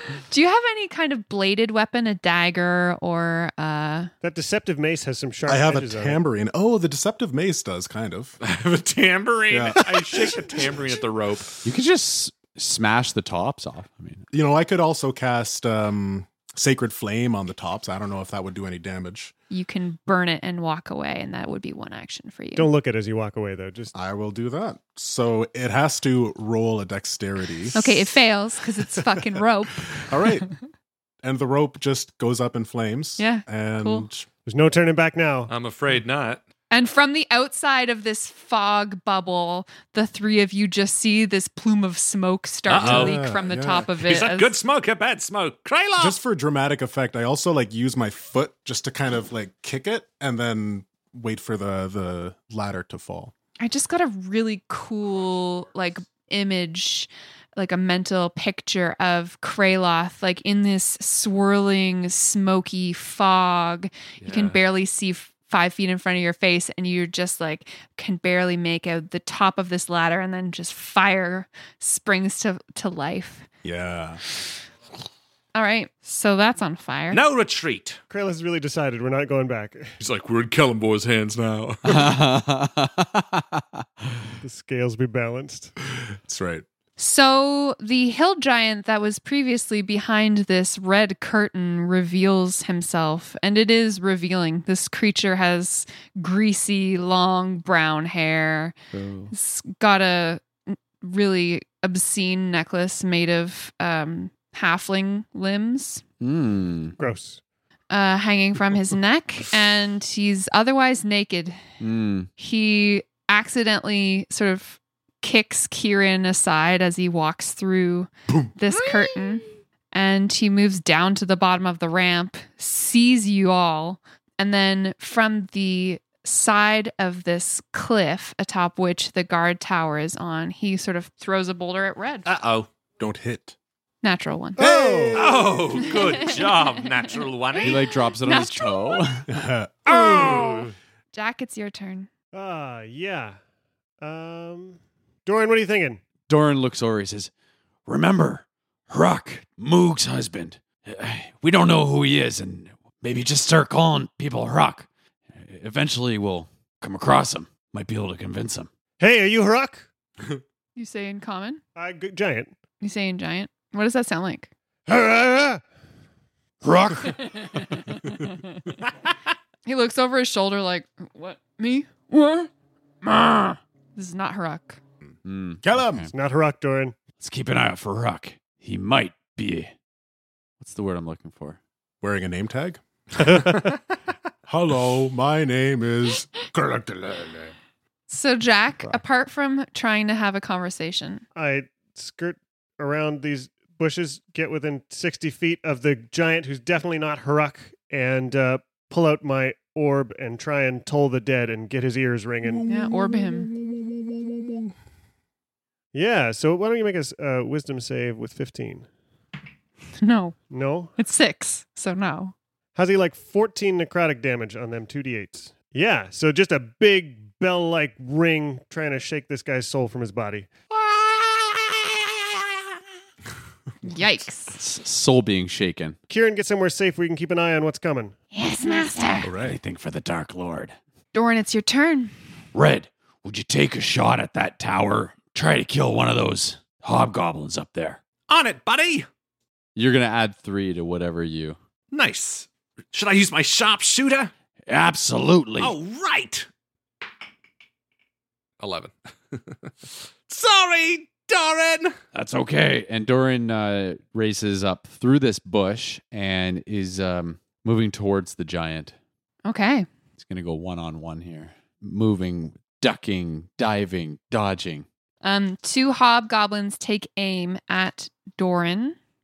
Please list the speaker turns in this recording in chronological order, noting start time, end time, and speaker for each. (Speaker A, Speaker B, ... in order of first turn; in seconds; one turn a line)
Speaker A: 0.3-4.1
Speaker B: 4.2-6.2
Speaker C: 5.5-8.4
Speaker D: 8.4-11.6
Speaker C: 9.5-9.9
Speaker B: 9.8-10.8
Speaker E: 11.6-14.2
Speaker C: 14.3-19.3
Speaker A: 19.5-22.7
Speaker B: 22.6-23.9
Speaker C: 23.9-28.1
Speaker A: 27.7-30.5
Speaker C: 30.0-30.5
Speaker C: 31.2-34.3
Speaker A: 33.2-34.1
Speaker B: 34.5-35.5
Speaker D: 35.5-36.4
Speaker A: 36.7-44.5
Speaker D: 42.7-43.2
Speaker C: 42.8-43.9
Speaker D: 44.0-46.2
Speaker C: 46.0-53.3
Speaker A: 53.6-73.5
Speaker D: 64.2-64.6
Speaker C: 73.6-74.2
Speaker A: 75.5-77.2
Speaker D: 77.1-78.0
Speaker B: 78.1-79.9
Speaker D: 80.0-82.1
Speaker E: 81.9-83.8
Speaker B: 84.4-85.7
Speaker C: 86.2-86.6
Speaker A: 87.0-98.8
Speaker E: 98.9-99.3
Speaker A: 99.3-106.0
Speaker E: 106.2-107.0
Speaker B: 107.0-107.4
Speaker A: 107.9-111.6
Speaker E: 111.8-112.3
Speaker A: 112.4-132.3
Speaker D: 132.3-132.7
Speaker C: 133.0-133.6
Speaker A: 134.0-134.7
Speaker B: 134.6-135.5
Speaker C: 134.6-136.2
Speaker D: 135.1-137.8
Speaker A: 137.6-139.2
Speaker E: 137.6-139.3
Speaker C: 139.3-140.5
Speaker A: 141.1-142.1
Speaker B: 142.3-143.4
Speaker B: 144.0-146.0
Speaker E: 146.3-147.3
Speaker E: 147.9-158.7
Speaker B: 159.0-159.9
Speaker A: 160.8-161.6
Speaker B: 161.8-162.5
Speaker A: 162.8-164.5
Speaker E: 164.9-165.6
Speaker E: 166.6-167.7
Speaker A: 169.7-172.5
Speaker A: 173.0-174.8
Speaker E: 175.2-176.1
Speaker C: 175.6-176.1
Speaker B: 176.1-176.9
Speaker E: 177.2-179.7
Speaker E: 180.6-181.6
Speaker C: 182.0-183.7
Speaker B: 183.2-183.6
Speaker C: 184.5-187.5
Speaker A: 188.1-191.2
Speaker B: 191.3-202.7
Speaker C: 202.4-204.7
Speaker A: 202.6-203.5
Speaker B: 205.9-208.9
Speaker A: 210.0-210.4
Speaker B: 210.5-210.9
Speaker A: 211.0-212.3
Speaker B: 212.8-220.5
Speaker A: 223.8-224.6
Speaker E: 224.5-226.0
Speaker B: 226.1-228.2
Speaker A: 228.3-229.3
Speaker C: 229.2-229.6
Speaker E: 229.3-230.8
Speaker A: 231.1-232.1
Speaker E: 232.5-238.0
Speaker D: 238.3-239.1
Speaker E: 239.8-241.6
Speaker D: 241.9-244.3
Speaker E: 244.7-245.7
Speaker D: 245.6-246.5
Speaker D: 248.6-249.7
Speaker D: 250.3-251.9
Speaker E: 252.1-258.9
Speaker A: 259.4-259.9
Speaker E: 260.2-264.9
Speaker A: 265.2-269.0